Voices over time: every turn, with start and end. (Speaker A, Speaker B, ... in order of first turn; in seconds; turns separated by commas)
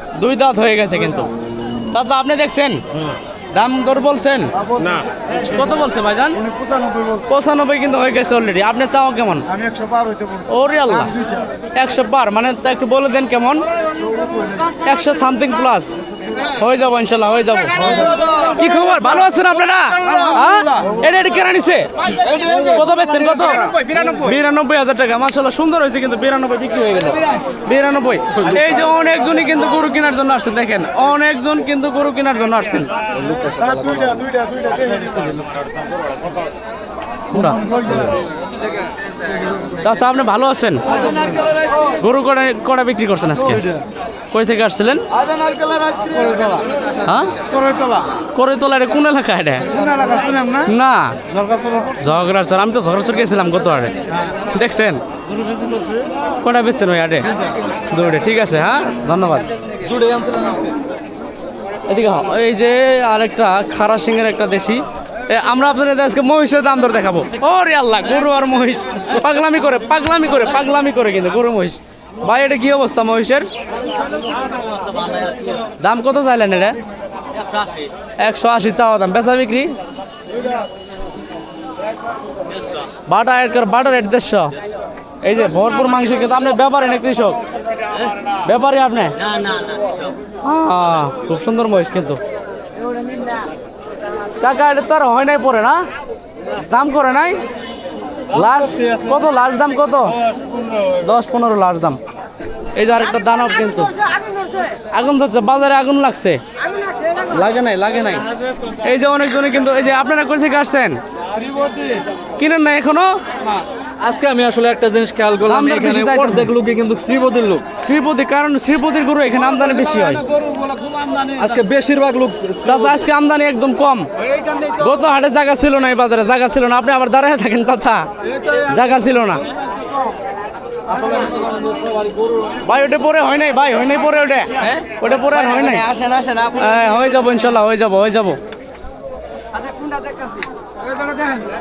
Speaker A: 0.1-1.3, Speaker A: 1.9-2.8, Speaker A: 3.5-4.5, Speaker B: 4.6-5.1, Speaker A: 5.4-6.4, Speaker B: 6.4-7.2, Speaker A: 7.3-9.5, Speaker B: 9.5-10.5, Speaker A: 10.5-11.2, Speaker B: 11.1-11.4, Speaker A: 11.7-13.7, Speaker B: 14.0-14.7, Speaker A: 14.8-32.9, Speaker C: 22.2-24.2, Speaker C: 33.1-34.2, Speaker B: 33.5-35.4, Speaker A: 37.3-37.6, Speaker B: 37.5-38.1, Speaker A: 39.8-41.1, Speaker C: 41.0-41.6, Speaker A: 41.8-43.7, Speaker A: 44.3-45.1, Speaker C: 45.2-46.5, Speaker B: 46.0-46.6, Speaker A: 47.0-47.4, Speaker B: 47.5-48.1, Speaker A: 48.3-49.8, Speaker B: 49.7-50.7, Speaker A: 50.6-51.2, Speaker B: 51.3-51.9, Speaker A: 52.0-55.0, Speaker C: 55.3-56.0, Speaker A: 56.4-57.4, Speaker A: 57.9-59.5, Speaker C: 59.7-60.7, Speaker A: 61.9-73.5, Speaker C: 75.0-75.3, Speaker A: 75.8-76.8, Speaker A: 78.2-79.7, Speaker A: 83.1-84.5, Speaker A: 85.2-87.4, Speaker A: 88.4-89.2, Speaker C: 89.5-89.7, Speaker A: 90.4-92.2, Speaker A: 94.4-95.8, Speaker A: 96.5-97.4, Speaker A: 98.3-100.2, Speaker A: 100.8-102.0, Speaker A: 102.7-104.0, Speaker A: 104.9-106.4, Speaker A: 107.2-108.2, Speaker A: 108.8-111.0, Speaker C: 111.3-112.0, Speaker A: 112.4-113.2, Speaker C: 113.5-117.7, Speaker A: 115.4-116.5, Speaker A: 117.7-120.2, Speaker C: 120.1-123.0, Speaker A: 122.6-124.1, Speaker C: 124.3-124.7, Speaker A: 124.7-129.5, Speaker C: 128.3-128.6, Speaker C: 130.9-132.5, Speaker A: 132.6-135.9, Speaker C: 134.6-136.9, Speaker A: 136.5-138.4, Speaker C: 139.8-140.3